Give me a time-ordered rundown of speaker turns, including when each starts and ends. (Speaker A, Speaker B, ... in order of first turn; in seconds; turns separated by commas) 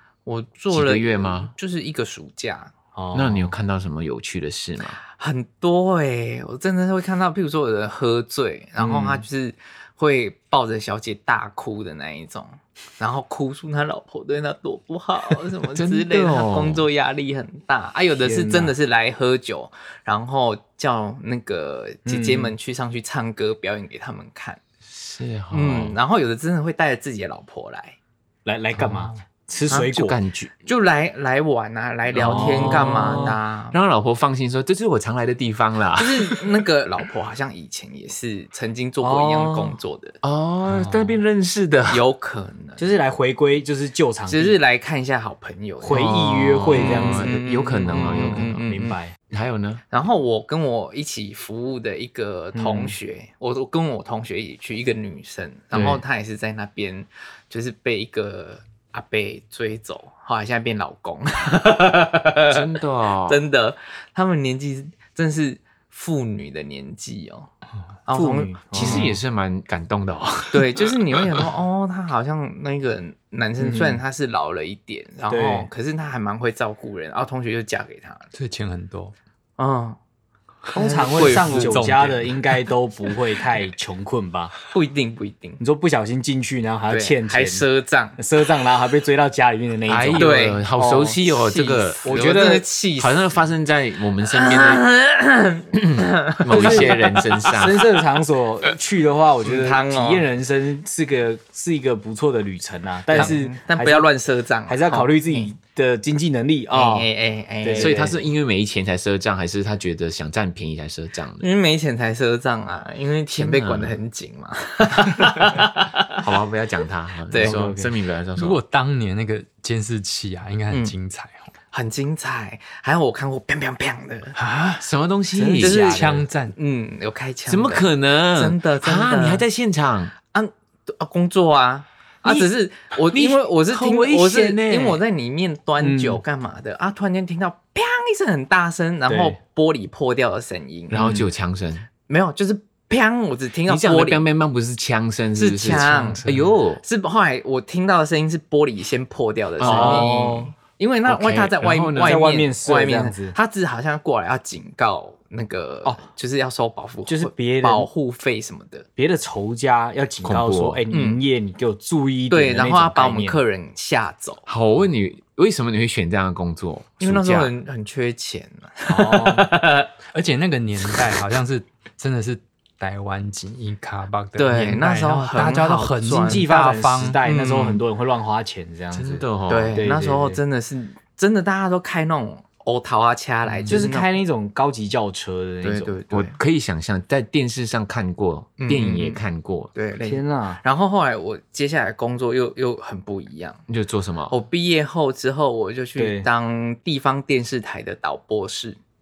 Speaker A: 0.2-2.7, Speaker B: 0.7-1.5, Speaker C: 2.9-3.5, Speaker B: 3.1-5.0, Speaker A: 5.2-24.6, Speaker C: 8.8-9.2, Speaker B: 15.7-16.9, Speaker C: 18.2-18.7, Speaker C: 22.0-22.5, Speaker B: 24.9-26.0, Speaker A: 25.5-28.0, Speaker C: 28.4-30.2, Speaker D: 28.8-29.2, Speaker A: 29.7-29.9, Speaker B: 29.7-30.5, Speaker A: 30.6-33.8, Speaker B: 32.1-36.5, Speaker C: 32.1-33.4, Speaker A: 36.0-40.2, Speaker C: 39.0-39.8, Speaker B: 40.2-42.0, Speaker C: 40.7-41.1, Speaker A: 41.9-42.9, Speaker C: 42.8-44.6, Speaker A: 44.3-49.0, Speaker C: 45.8-49.1, Speaker B: 45.9-48.7, Speaker B: 49.3-49.8, Speaker A: 49.9-62.6, Speaker C: 52.5-53.0, Speaker B: 55.7-56.0, Speaker B: 62.5-63.4, Speaker A: 63.2-67.5, Speaker A: 68.0-69.2, Speaker C: 68.1-69.1, Speaker B: 68.7-71.5, Speaker A: 70.5-78.2, Speaker C: 73.6-74.0, Speaker C: 75.3-75.7, Speaker D: 78.3-79.1, Speaker A: 79.6-80.0, Speaker D: 80.7-82.5, Speaker A: 80.7-81.8, Speaker C: 80.7-84.5, Speaker A: 84.7-85.6, Speaker C: 85.6-87.6, Speaker A: 86.9-88.2, Speaker C: 88.2-91.2, Speaker B: 89.9-94.8, Speaker A: 90.2-90.6, Speaker A: 91.3-93.3, Speaker C: 92.0-92.6, Speaker A: 94.2-97.1, Speaker B: 95.8-97.9, Speaker C: 96.5-104.1, Speaker A: 99.4-100.3, Speaker A: 103.1-105.5, Speaker C: 104.7-107.1, Speaker A: 106.7-108.1, Speaker C: 107.6-108.2, Speaker B: 107.7-111.5, Speaker A: 111.4-116.0, Speaker B: 113.3-114.0, Speaker B: 116.2-118.6, Speaker A: 117.3-117.6, Speaker C: 117.3-117.9, Speaker D: 118.3-121.4, Speaker A: 121.7-124.3, Speaker D: 124.3-124.9, Speaker B: 124.8-126.2, Speaker C: 125.3-125.8, Speaker A: 125.6-129.4, Speaker D: 125.6-126.5, Speaker B: 127.5-130.1, Speaker A: 130.3-140.9, Speaker B: 132.2-132.5, Speaker B: 133.1-135.0, Speaker C: 135.8-136.2, Speaker C: 139.1-139.4, Speaker B: 140.9-141.9, Speaker C: 140.9-141.3, Speaker A: 142.1-144.2, Speaker B: 143.7-146.8, Speaker A: 145.3-158.8, Speaker B: 149.6-150.3, Speaker C: 149.6-150.5, Speaker B: 151.1-152.2, Speaker C: 152.0-153.3, Speaker C: 157.1-157.9, Speaker C: 159.0-163.4, Speaker B: 160.2-160.8, Speaker A: 160.9-161.2, Speaker A: 162.3-164.4, Speaker B: 164.4-167.5, Speaker A: 167.0-169.9, Speaker C: 168.9-169.5, Speaker D: 170.1-177.2, Speaker A: 174.4-176.5, Speaker C: 176.1-180.4, Speaker A: 177.2-177.8, Speaker B: 178.9-179.8, Speaker A: 179.5-184.1, Speaker B: 183.4-183.9, Speaker C: 183.7-185.9, Speaker A: 185.6-186.3, Speaker B: 186.1-189.7, Speaker A: 188.6-189.2, Speaker A: 189.7-193.6, Speaker C: 190.0-190.6, Speaker B: 193.7-194.3, Speaker A: 194.3-198.8, Speaker C: 195.9-196.3